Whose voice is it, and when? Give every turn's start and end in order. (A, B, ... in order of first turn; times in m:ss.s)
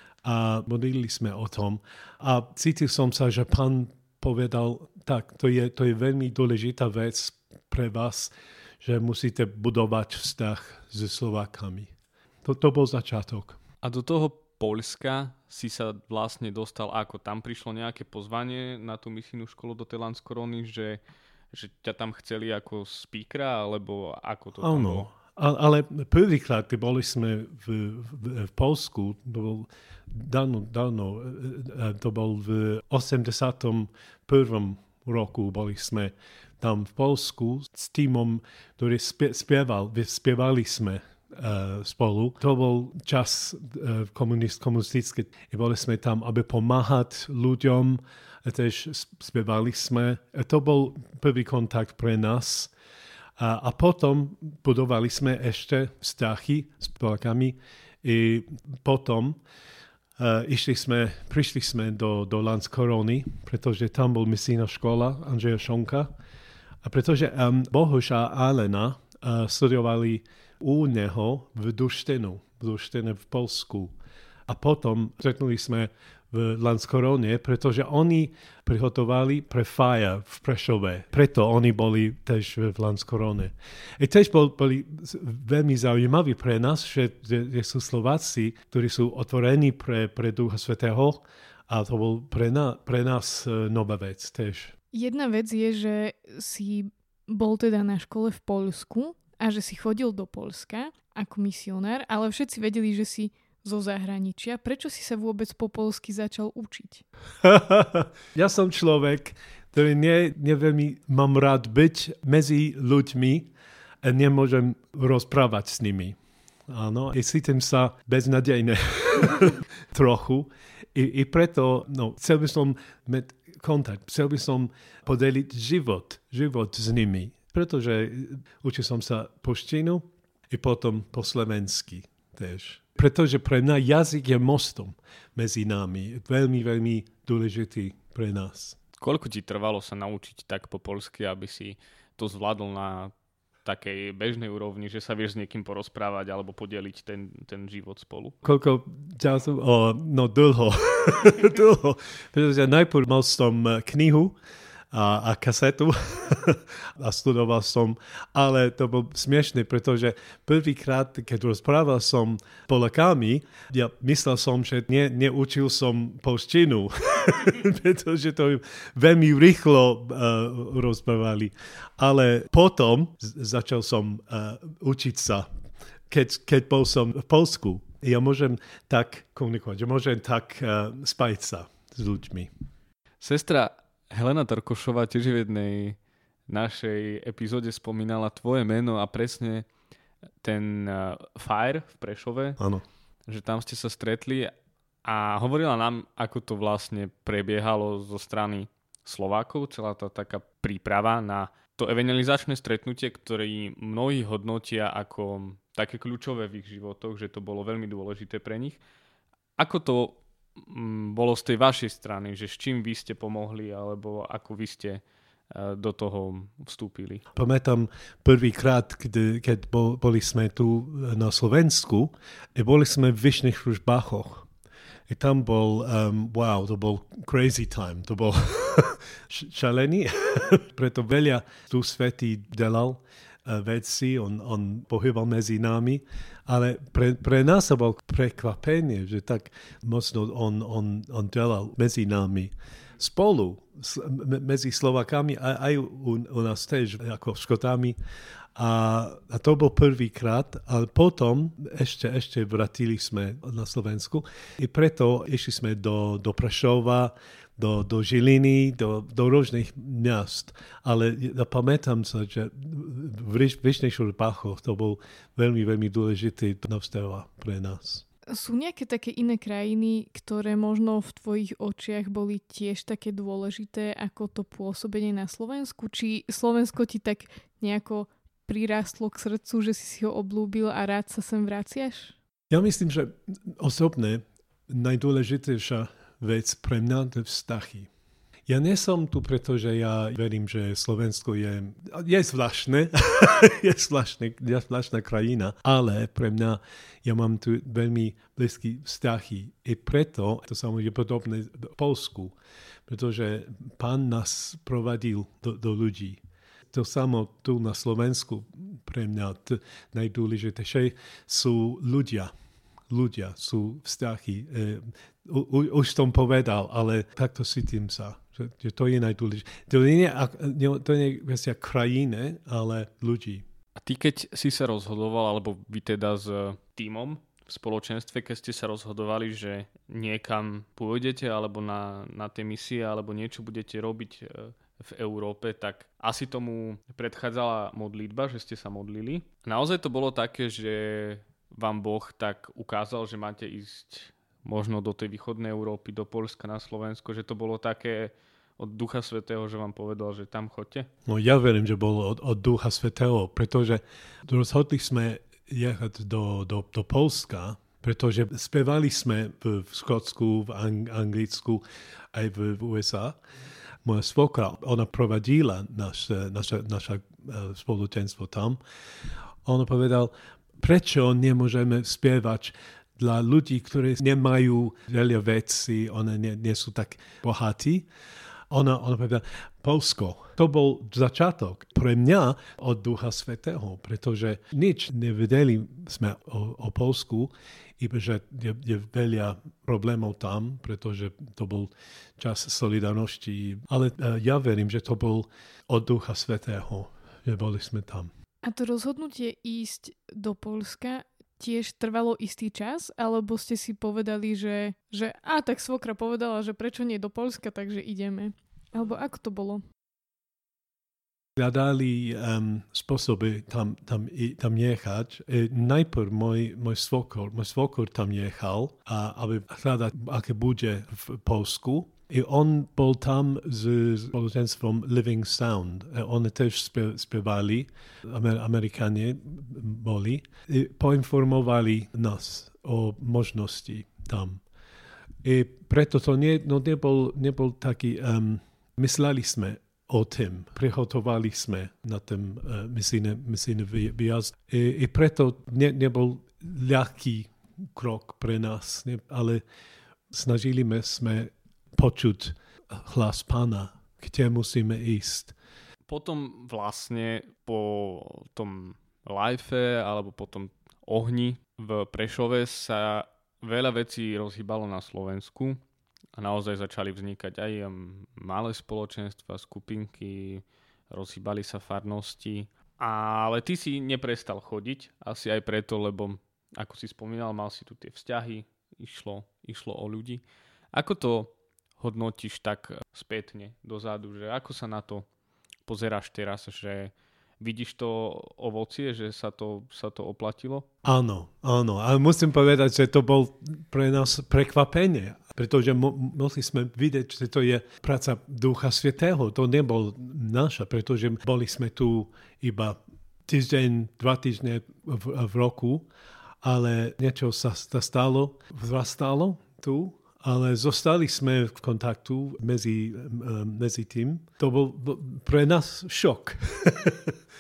0:00.2-0:11.9 A
0:12.4-0:13.6 A
0:13.8-0:21.0 B
0:21.5-0:25.1 B
0:24.6-0:52.7 A
0:53.4-0:59.4 A
1:00.2-1:06.1 A
1:06.8-1:14.0 A
1:14.5-1:34.7 A
1:34.9-1:47.0 C
1:47.4-1:53.5 A
1:54.0-1:56.2 A
1:56.7-2:18.8 A
2:19.0-2:23.1 B
2:23.6-2:28.4 B
2:28.4-2:34.4 A
2:34.9-2:55.5 A
2:56.1-3:02.5 A
3:03.2-3:06.0 B
3:06.5-3:09.6 B
3:10.4-3:12.6 B
3:12.6-3:12.8 A
3:13.3-3:14.5 B
3:15.0-3:28.8 B
3:29.6-3:37.2 B
3:37.3-3:44.5 A
3:45.1-4:08.0 A
4:08.5-4:28.0 A
4:28.3-4:42.2 C
4:42.5-4:47.9 A
4:48.5-5:12.3 A
5:12.9-5:23.4 A
5:23.8-5:50.9 B
5:51.0-6:03.2 A
6:03.8-6:08.6 A
6:09.4-6:17.9 A
6:18.5-6:38.1 A
6:38.4-6:49.6 C
6:51.4-7:14.4 A
7:15.2-7:29.4 A
7:30.1-7:35.3 A
7:35.9-7:45.6 B
7:46.1-8:00.2 B
8:00.7-8:05.0 B
8:05.6-8:10.7 B
8:10.8-8:25.9 A
8:26.4-8:37.2 A